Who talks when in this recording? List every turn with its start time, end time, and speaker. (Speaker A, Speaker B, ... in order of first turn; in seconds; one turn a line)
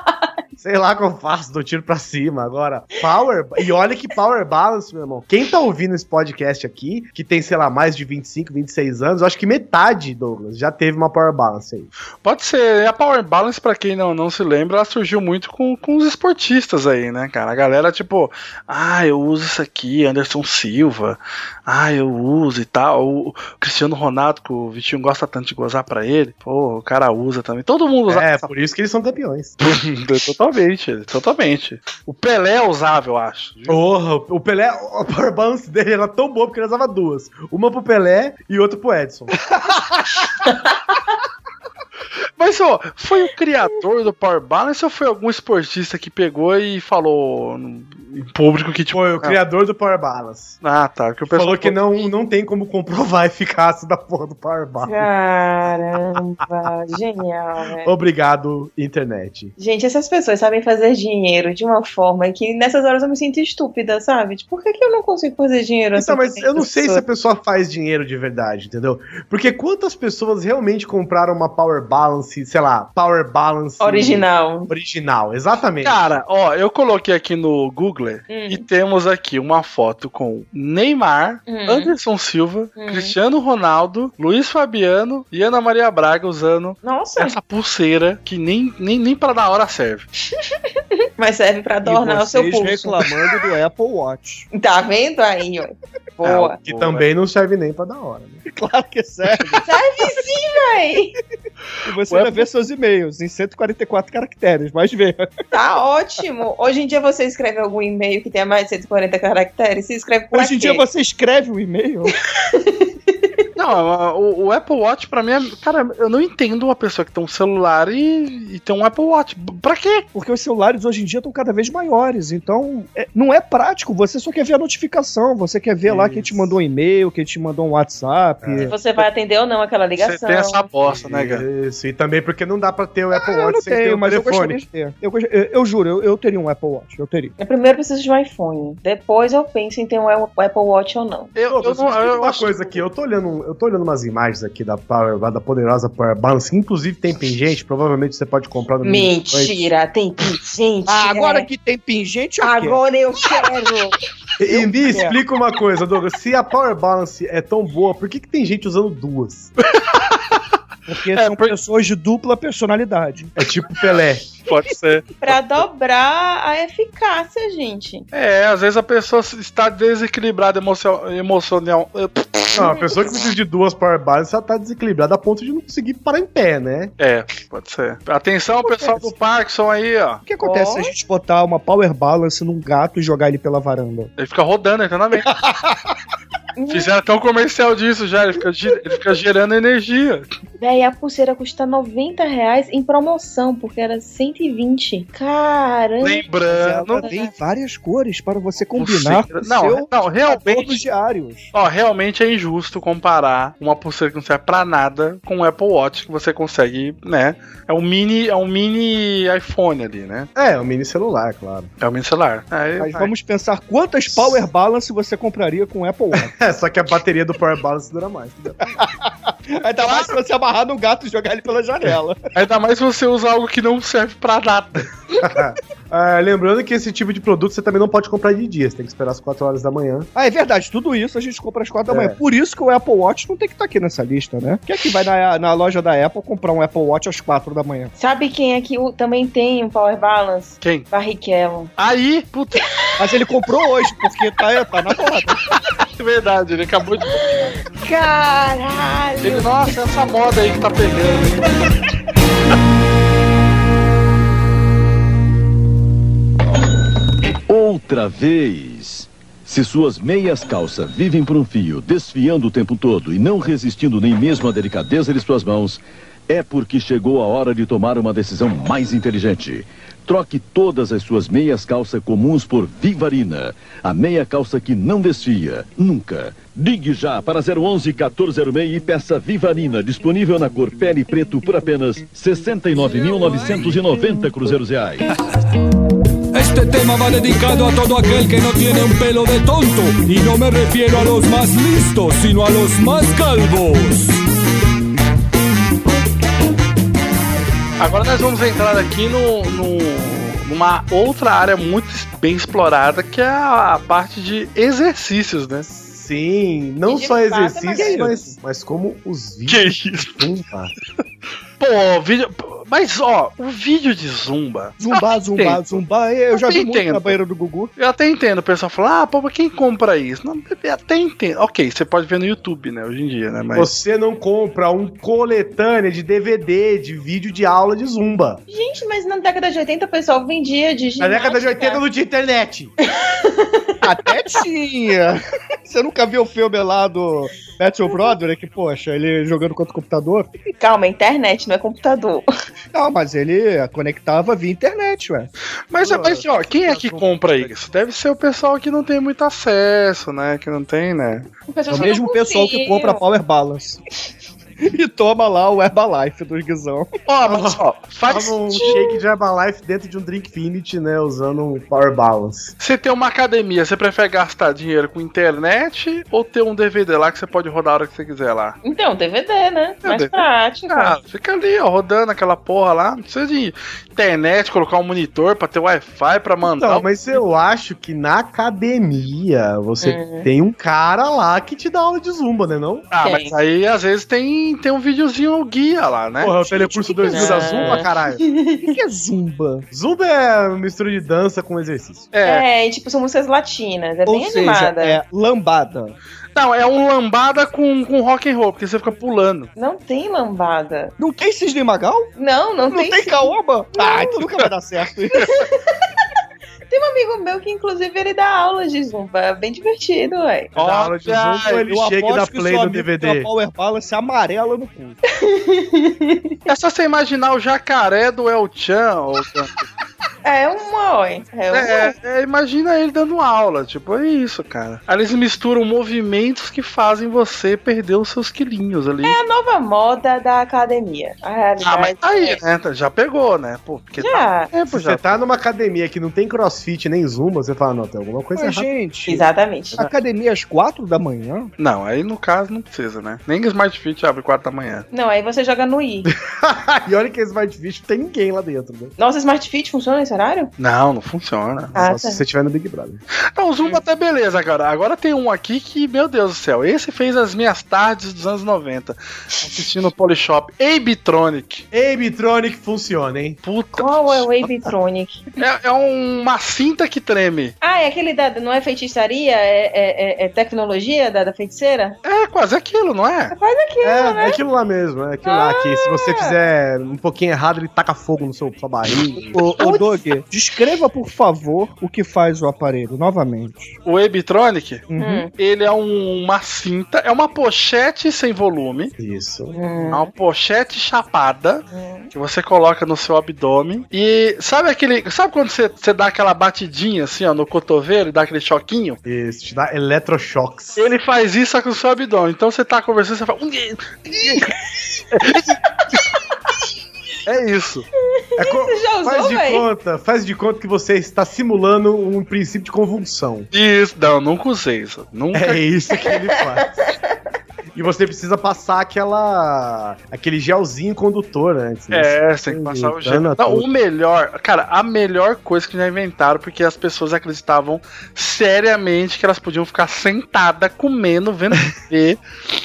Speaker A: 0.6-11.9
Speaker B: 12.2-28.5
Speaker A: 28.1-29.6
Speaker B: 29.6-33.7
Speaker A: 33.7-39.5
Speaker C: 40.5-41.0
Speaker B: 42.4-49.4
Speaker A: 48.9-50.6
Speaker B: 50.6-51.8
Speaker A: 51.3-55.1
Speaker C: 54.8-57.9
Speaker A: 57.8-59.5
Speaker C: 59.6-67.0
Speaker A: 66.0-76.2
Speaker C: 73.8-74.7
Speaker B: 75.8-90.1
Speaker C: 78.3-78.7
Speaker C: 81.5-81.9
Speaker C: 82.8-83.2
Speaker C: 86.8-87.3
Speaker C: 91.2-93.1
Speaker D: 91.8-94.5
Speaker C: 94.5-96.6
Speaker B: 96.2-97.0
Speaker A: 96.7-98.4
Speaker D: 98.5-99.6
Speaker C: 99.6-101.2
Speaker D: 101.8-105.3
Speaker B: 102.1-102.5
Speaker C: 105.5-110.8
Speaker D: 110.3-112.2
Speaker C: 112.2-113.3
Speaker B: 113.6-120.1
Speaker D: 120.1-128.8
Speaker A: 125.9-126.6
Speaker A: 128.4-128.7
Speaker C: 128.7-130.7
Speaker B: 130.0-131.4
Speaker A: 130.9-134.6
Speaker D: 133.1-137.3
Speaker C: 137.4-141.3
Speaker B: 141.4-142.8
Speaker A: 141.5-149.7
Speaker C: 148.8-151.5
Speaker D: 150.9-152.8
Speaker C: 152.4-154.0
Speaker A: 154.4-159.5
Speaker D: 154.5-155.2
Speaker D: 160.9-163.3
Speaker B: 161.2-161.5
Speaker A: 163.4-164.3
Speaker B: 164.5-165.4
Speaker C: 165.2-168.1
Speaker B: 168.1-172.7
Speaker A: 172.6-176.9
Speaker C: 172.6-172.9
Speaker B: 177.0-180.2
Speaker D: 180.3-184.1
Speaker C: 180.4-180.9
Speaker B: 184.2-185.3
Speaker D: 185.4-185.7
Speaker C: 186.6-186.9
Speaker B: 186.7-190.3
Speaker C: 190.6-196.3
Speaker B: 196.0-197.2
Speaker D: 196.5-201.5
Speaker B: 198.8-200.8
Speaker B: 201.5-210.3
Speaker A: 210.4-211.7
Speaker B: 211.8-213.1
Speaker D: 212.8-216.3
Speaker A: 216.1-218.7
Speaker D: 218.8-222.2
Speaker B: 219.8-220.2
Speaker B: 222.3-224.9
Speaker A: 225.2-230.1
Speaker D: 230.2-237.9
Speaker A: 231.9-232.2
Speaker C: 238.0-241.7
Speaker B: 240.6-240.9
Speaker B: 241.8-242.7
Speaker D: 243.0-245.4
Speaker B: 245.8-247.4
Speaker C: 247.2-249.5
Speaker B: 249.2-251.5
Speaker E: 257.5-285.0
Speaker F: 286.3-294.2
Speaker B: 297.8-305.7
Speaker A: 305.7-310.7
Speaker C: 306.9-308.1
Speaker D: 307.7-308.2
Speaker B: 309.5-310.2
Speaker B: 311.6-315.8
Speaker D: 314.8-317.7
Speaker B: 316.3-317.2
Speaker B: 317.8-323.7
Speaker A: 323.5-328.4
Speaker C: 328.5-331.8
Speaker A: 331.0-332.7
Speaker C: 332.9-333.7
Speaker D: 333.8-340.3
Speaker C: 340.6-342.3
Speaker D: 342.7-345.3
Speaker B: 345.7-351.3
Speaker A: 345.8-347.5
Speaker C: 351.5-353.0
Speaker D: 351.7-353.8
Speaker D: 354.6-356.9
Speaker B: 357.1-358.6
Speaker A: 357.3-362.5
Speaker C: 358.6-359.0
Speaker B: 362.6-368.6
Speaker C: 368.6-371.0
Speaker B: 369.8-376.9
Speaker A: 376.5-382.9
Speaker C: 379.8-380.3
Speaker B: 382.9-387.7
Speaker C: 383.0-383.3
Speaker A: 386.2-388.2
Speaker C: 387.0-388.7
Speaker D: 388.6-389.7
Speaker A: 389.7-392.1
Speaker B: 392.1-392.4
Speaker C: 392.2-395.0
Speaker D: 394.1-396.0
Speaker B: 396.4-399.5
Speaker C: 399.6-400.9
Speaker D: 401.0-402.1
Speaker C: 402.2-403.3
Speaker D: 402.7-405.3
Speaker C: 405.2-405.6
Speaker C: 406.7-410.5
Speaker B: 410.6-411.6
Speaker A: 410.6-413.3
Speaker D: 411.6-415.0
Speaker C: 415.1-416.4
Speaker B: 416.5-419.6
Speaker C: 420.2-421.9
Speaker B: 421.5-429.2
Speaker C: 429.0-432.4
Speaker B: 431.6-435.2
Speaker C: 434.0-434.5
Speaker A: 434.7-438.7
Speaker D: 438.4-441.5
Speaker C: 439.1-439.8
Speaker B: 441.6-444.9
Speaker C: 444.9-446.1
Speaker A: 446.3-448.9
Speaker C: 449.0-450.5
Speaker B: 450.6-451.8
Speaker C: 451.7-452.2
Speaker A: 451.7-453.0
Speaker B: 453.3-461.6
Speaker A: 461.7-463.4
Speaker B: 463.4-464.3
Speaker C: 463.8-465.3
Speaker B: 465.4-467.5
Speaker C: 467.6-472.0
Speaker B: 472.0-473.3
Speaker C: 473.3-474.4
Speaker A: 473.8-479.3
Speaker C: 475.2-476.4
Speaker D: 479.3-483.7
Speaker C: 479.6-480.0
Speaker B: 483.9-484.8
Speaker D: 484.9-485.3
Speaker C: 485.0-485.3
Speaker B: 485.4-488.9
Speaker A: 489.0-489.6
Speaker C: 489.5-490.1
Speaker B: 489.9-499.0
Speaker C: 491.7-492.1
Speaker A: 499.1-500.9
Speaker B: 500.8-504.5
Speaker B: 505.1-506.0
Speaker B: 507.3-507.9
Speaker C: 508.2-509.7
Speaker A: 508.4-513.5
Speaker B: 513.5-515.6
Speaker A: 515.3-516.8
Speaker C: 515.9-517.2
Speaker A: 517.7-523.7
Speaker B: 521.9-532.2